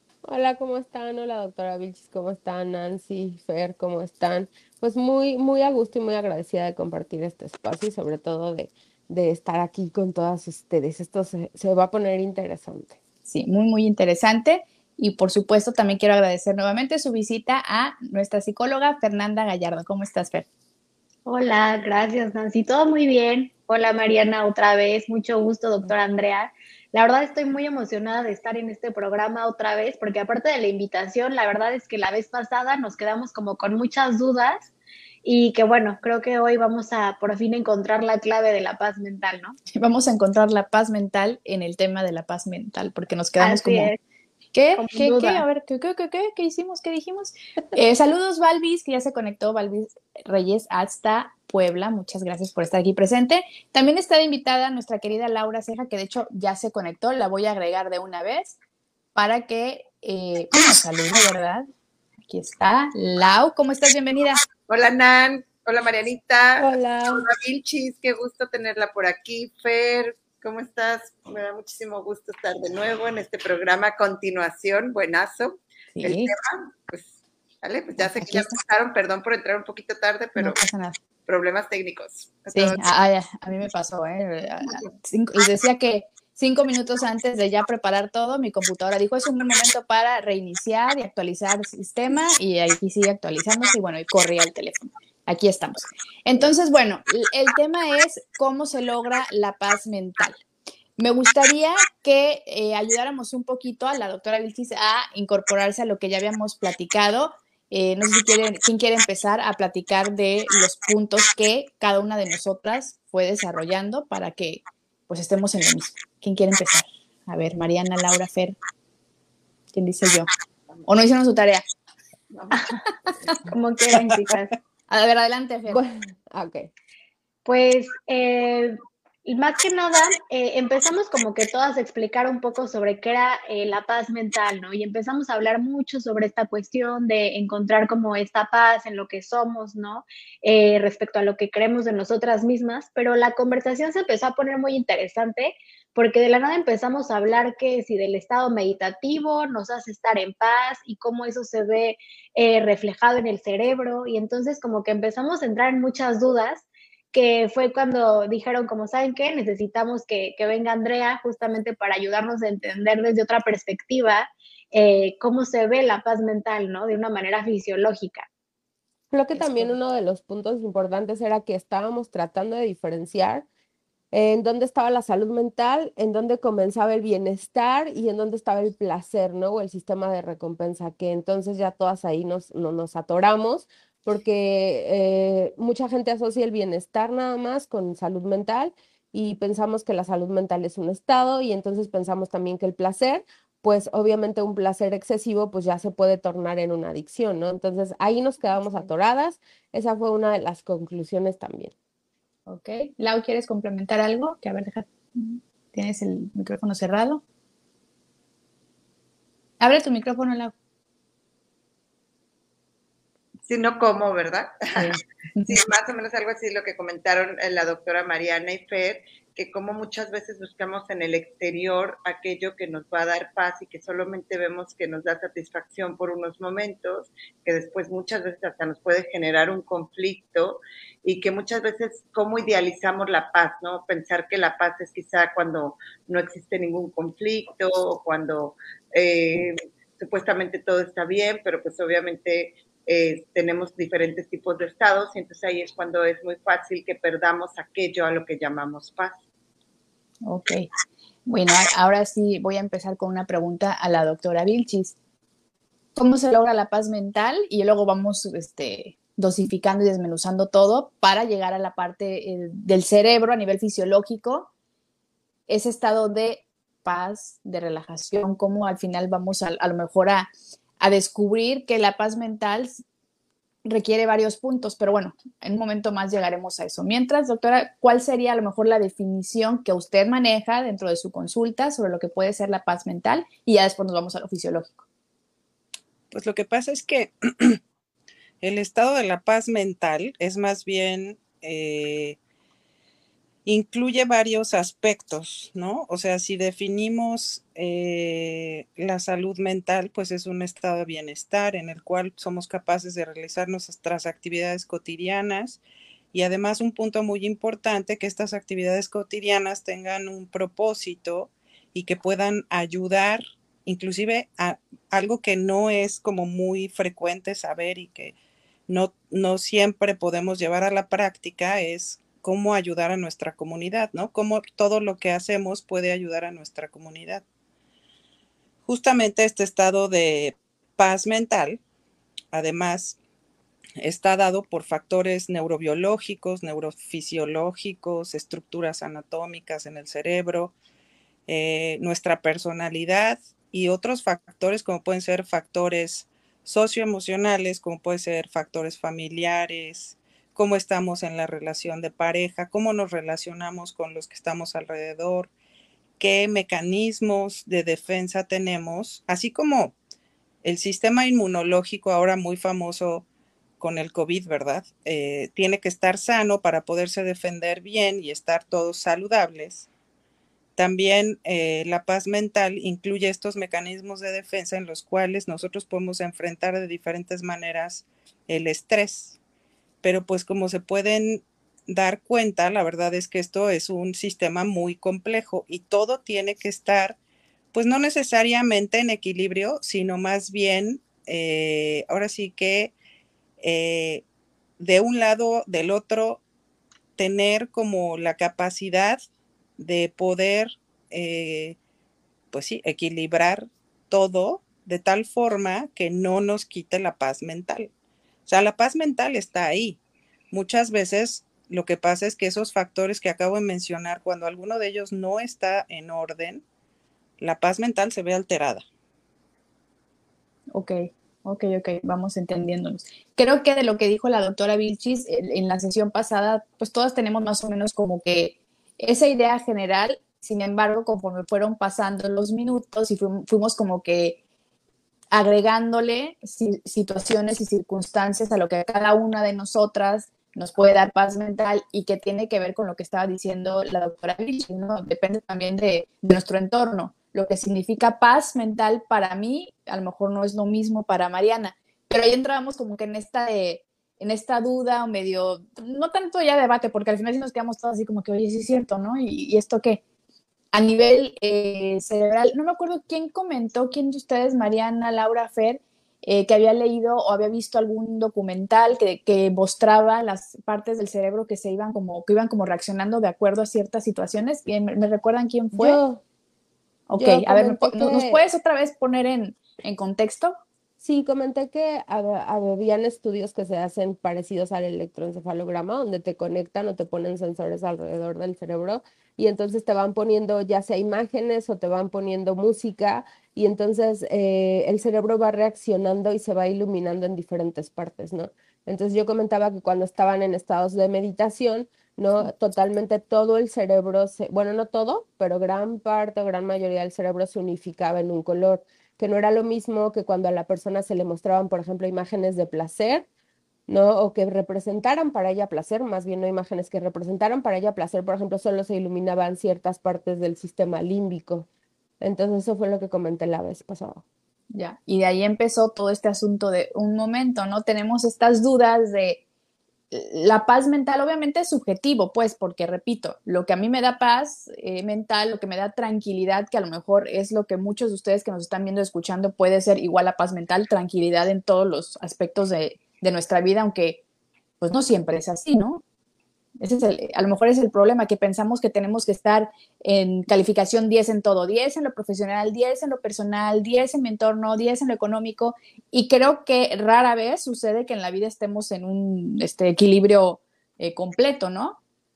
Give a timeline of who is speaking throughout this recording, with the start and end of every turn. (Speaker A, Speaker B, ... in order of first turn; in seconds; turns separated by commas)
Speaker A: 0.2-13.0, Speaker B: 13.3-20.5, Speaker C: 21.3-34.7, Speaker C: 35.2-39.6, Speaker B: 39.7-43.9, Speaker C: 43.4-44.0, Speaker B: 44.5-58.6, Speaker C: 44.8-45.5, Speaker B: 59.1-61.7, Speaker B: 62.3-64.4, Speaker D: 64.7-80.6, Speaker A: 66.6-67.3, Speaker B: 76.0-76.3, Speaker B: 78.0-78.6, Speaker B: 80.4-81.0, Speaker D: 81.3-82.8, Speaker B: 82.5-100.4, Speaker B: 101.0-118.6, Speaker B: 119.7-120.3, Speaker B: 120.9-121.6, Speaker D: 122.3-122.6, Speaker C: 123.5-124.5, Speaker B: 124.9-125.8, Speaker A: 125.7-126.7, Speaker C: 127.5-168.3, Speaker A: 169.1-173.5, Speaker B: 169.3-169.8, Speaker A: 174.1-201.7, Speaker B: 202.5-207.2, Speaker B: 209.6-210.5, Speaker D: 213.4-215.0, Speaker B: 214.8-215.5, Speaker D: 215.5-249.2, Speaker B: 250.3-250.7, Speaker B: 251.3-254.9, Speaker B: 256.0-264.5, Speaker B: 265.5-272.8, Speaker B: 273.6-284.9, Speaker E: 286.1-287.6, Speaker E: 288.4-292.2, Speaker E: 293.5-305.6, Speaker E: 306.1-318.1, Speaker E: 318.7-327.2, Speaker E: 328.7-331.6, Speaker E: 332.3-333.0, Speaker E: 333.8-340.5, Speaker E: 341.3-355.3, Speaker E: 356.0-359.8, Speaker E: 360.4-363.1, Speaker E: 363.6-369.7, Speaker E: 370.6-379.2, Speaker E: 379.8-387.0, Speaker E: 387.5-392.7, Speaker E: 393.4-394.0, Speaker E: 394.6-396.2, Speaker E: 397.0-399.0, Speaker E: 399.6-401.6, Speaker E: 402.3-407.7, Speaker E: 408.3-409.8, Speaker E: 410.3-416.4, Speaker E: 417.2-418.6, Speaker B: 420.5-434.2, Speaker B: 435.1-459.8, Speaker B: 460.5-475.8, Speaker A: 475.5-476.0, Speaker B: 476.9-480.4, Speaker A: 477.0-478.2, Speaker A: 480.8-513.1, Speaker A: 513.7-521.5, Speaker A: 522.0-524.0, Speaker B: 524.5-529.2, Speaker B: 529.9-544.0, Speaker B: 544.6-545.8, Speaker B: 546.6-561.8